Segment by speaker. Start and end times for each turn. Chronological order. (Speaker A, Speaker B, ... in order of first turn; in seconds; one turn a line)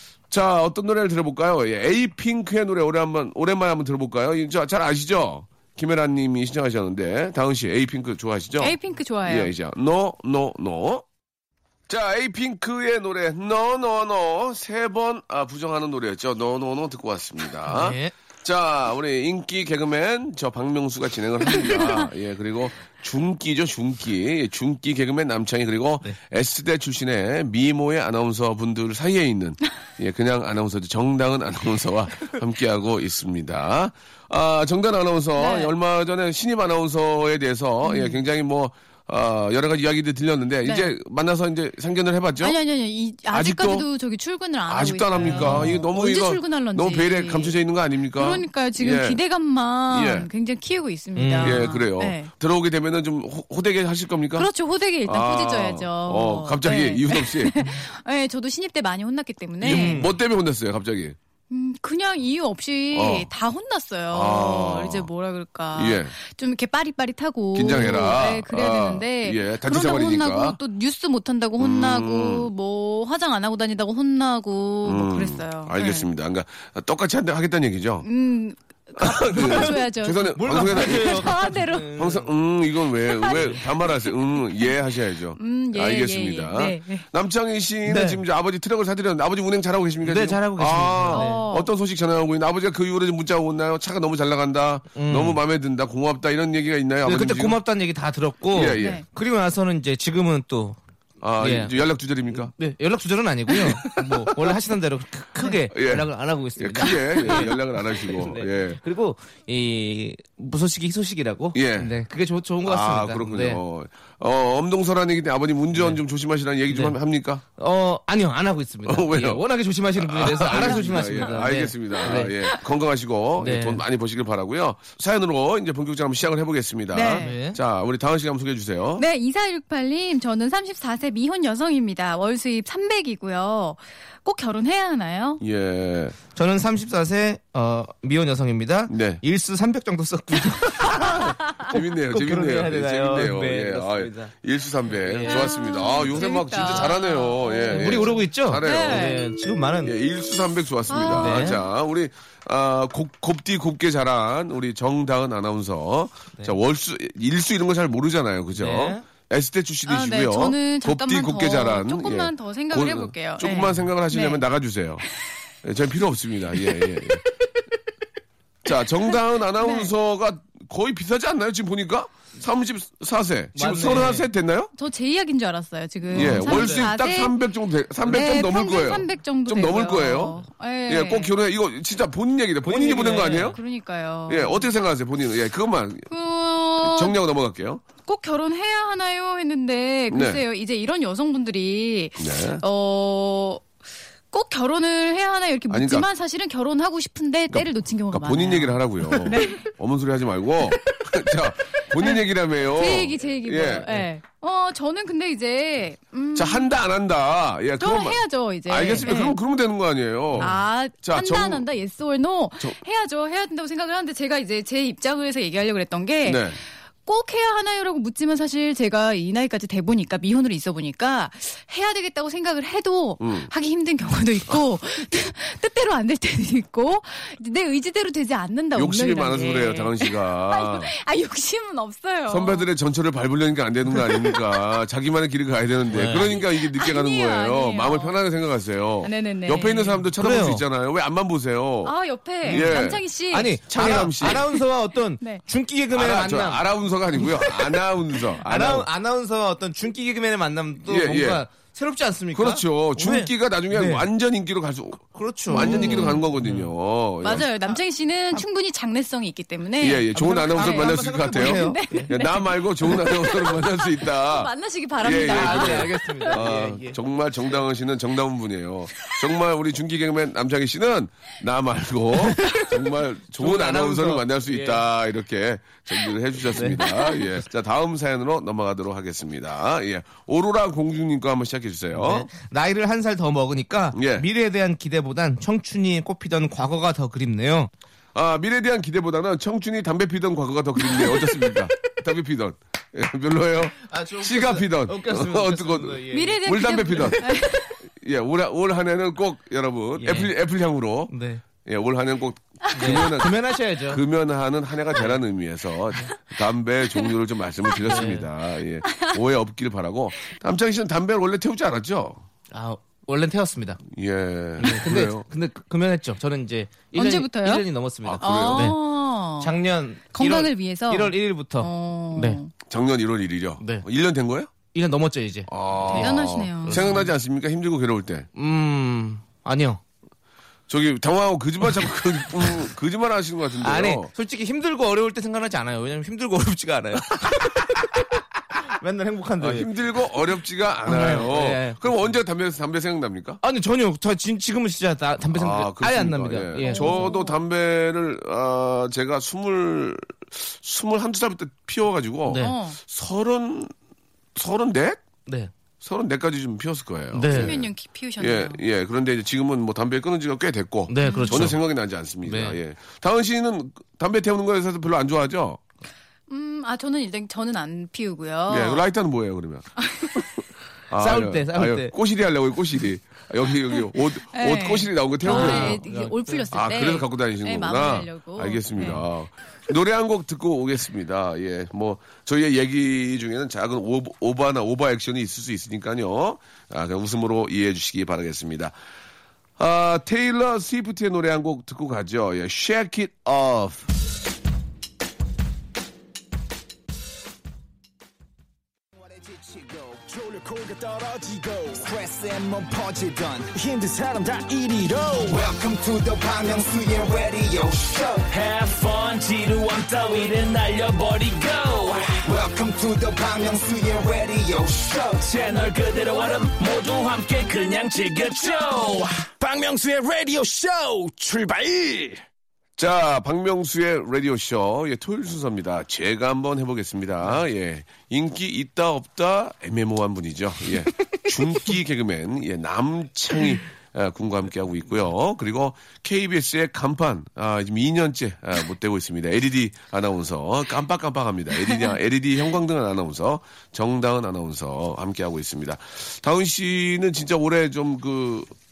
Speaker A: 0.3-11.0
Speaker B: 8.6-9.5
Speaker A: 11.9-42.6
Speaker C: 17.7-18.1
Speaker B: 35.4-35.7
Speaker B: 37.8-38.2
Speaker B: 40.6-40.9
Speaker B: 42.4-47.6
Speaker A: 43.3-43.9
Speaker A: 44.7-49.2
Speaker C: 45.2-45.8
Speaker B: 48.1-52.3
Speaker A: 49.9-50.3
Speaker C: 51.1-51.7
Speaker A: 51.4-54.5
Speaker B: 54.4-60.0
Speaker A: 55.0-57.7
Speaker A: 59.6-61.2
Speaker C: 59.6-60.1
Speaker B: 61.5-76.1
Speaker A: 62.9-63.3
Speaker A: 64.1-65.1
Speaker A: 65.7-66.1
Speaker A: 67.5-70.6
Speaker A: 71.6-72.5
Speaker A: 74.8-78.1
Speaker B: 78.0-82.0
Speaker A: 79.0-81.4
Speaker C: 79.3-79.7
Speaker C: 80.3-82.3
Speaker A: 82.0-97.6
Speaker B: 83.0-84.7
Speaker B: 85.4-87.0
Speaker C: 87.8-88.2
Speaker C: 90.0-91.5
Speaker B: 91.1-91.7
Speaker C: 94.9-95.4
Speaker C: 97.0-100.8
Speaker A: 98.5-99.0
Speaker B: 98.8-99.0
Speaker A: 101.2-102.5
Speaker C: 101.4-113.6
Speaker A: 103.5-104.5
Speaker A: 105.7-108.8
Speaker A: 111.5-111.9
Speaker A: 112.6-117.4
Speaker C: 115.7-116.0
Speaker C: 116.7-117.0
Speaker C: 117.6-122.4
Speaker A: 118.8-129.0
Speaker B: 120.6-121.2
Speaker B: 122.1-122.5
Speaker C: 123.4-123.8
Speaker B: 126.9-127.3
Speaker C: 127.2-127.6
Speaker B: 129.0-135.4
Speaker A: 135.4-136.2
Speaker C: 136.3-144.3
Speaker A: 138.9-139.2
Speaker A: 140.9-149.2
Speaker C: 144.9-145.5
Speaker B: 145.2-149.3
Speaker C: 147.7-149.9
Speaker A: 149.8-165.0
Speaker B: 150.9-151.5
Speaker C: 151.1-151.6
Speaker C: 158.6-159.0
Speaker B: 159.8-164.4
Speaker A: 165.6-167.2
Speaker A: 168.6-174.7
Speaker B: 169.6-169.9
Speaker C: 173.5-174.3
Speaker B: 174.8-177.4
Speaker A: 176.1-180.4
Speaker C: 176.1-176.9
Speaker B: 178.0-181.3
Speaker A: 180.9-183.6
Speaker C: 182.6-183.6
Speaker B: 182.9-184.7
Speaker A: 184.3-186.1
Speaker B: 186.1-187.2
Speaker A: 186.8-187.8
Speaker B: 188.1-193.7
Speaker A: 190.1-190.4
Speaker A: 192.2-192.6
Speaker B: 194.3-199.7
Speaker A: 195.7-196.1
Speaker A: 197.5-204.0
Speaker B: 202.0-206.7
Speaker A: 206.3-211.6
Speaker B: 207.8-209.4
Speaker B: 210.4-232.7
Speaker A: 216.2-216.6
Speaker A: 223.2-223.5
Speaker A: 228.7-230.9
Speaker A: 232.3-241.9
Speaker B: 234.1-234.4
Speaker C: 235.9-236.3
Speaker B: 236.3-238.2
Speaker B: 239.0-240.0
Speaker C: 240.2-240.6
Speaker B: 241.8-243.6
Speaker A: 242.4-243.0
Speaker C: 242.5-242.8
Speaker C: 243.3-247.8
Speaker A: 243.7-244.5
Speaker A: 245.9-248.9
Speaker C: 248.4-254.1
Speaker A: 250.8-251.4
Speaker A: 252.3-257.5
Speaker C: 255.1-256.7
Speaker B: 255.5-256.2
Speaker B: 257.2-266.4
Speaker A: 259.8-282.3
Speaker C: 260.1-262.1
Speaker C: 265.1-267.0
Speaker C: 272.2-272.7
Speaker C: 273.4-274.8
Speaker C: 276.4-276.8
Speaker C: 281.9-287.7
Speaker A: 283.9-284.3
Speaker A: 288.1-297.2
Speaker C: 293.8-296.4
Speaker B: 296.1-297.8
Speaker A: 297.9-301.1
Speaker C: 300.0-300.3
Speaker C: 301.1-301.4
Speaker A: 301.6-312.2
Speaker C: 302.7-304.0
Speaker C: 307.9-308.3
Speaker C: 312.5-313.8
Speaker A: 313.8-315.2
Speaker C: 314.6-318.8
Speaker B: 316.9-317.6
Speaker A: 318.0-318.7
Speaker B: 318.2-319.5
Speaker C: 319.4-322.4
Speaker B: 320.1-322.5
Speaker A: 322.7-324.5
Speaker C: 324.7-327.1
Speaker A: 325.5-328.3
Speaker B: 325.9-326.9
Speaker C: 328.4-329.8
Speaker A: 330.7-334.1
Speaker C: 333.6-339.7
Speaker A: 339.4-343.4
Speaker C: 340.9-342.1
Speaker C: 343.4-347.1
Speaker A: 345.3-353.7
Speaker B: 346.6-347.4
Speaker C: 352.3-352.5
Speaker B: 352.4-352.8
Speaker A: 354.3-355.0
Speaker A: 355.8-365.6
Speaker C: 357.1-357.6
Speaker B: 357.3-358.6
Speaker C: 360.9-361.6
Speaker B: 361.0-361.5
Speaker C: 362.2-362.6
Speaker B: 366.3-368.9
Speaker A: 368.5-369.7
Speaker B: 369.8-370.3
Speaker A: 370.9-375.8
Speaker C: 371.0-371.9
Speaker B: 374.3-379.0
Speaker C: 375.2-376.5
Speaker A: 376.5-388.7
Speaker A: 389.6-393.9
Speaker D: 398.9-408.3
Speaker E: 408.3-412.2
Speaker D: 412.2-415.3
Speaker E: 415.2-419.3
Speaker D: 419.4-422.2
Speaker A: 422.8-448.5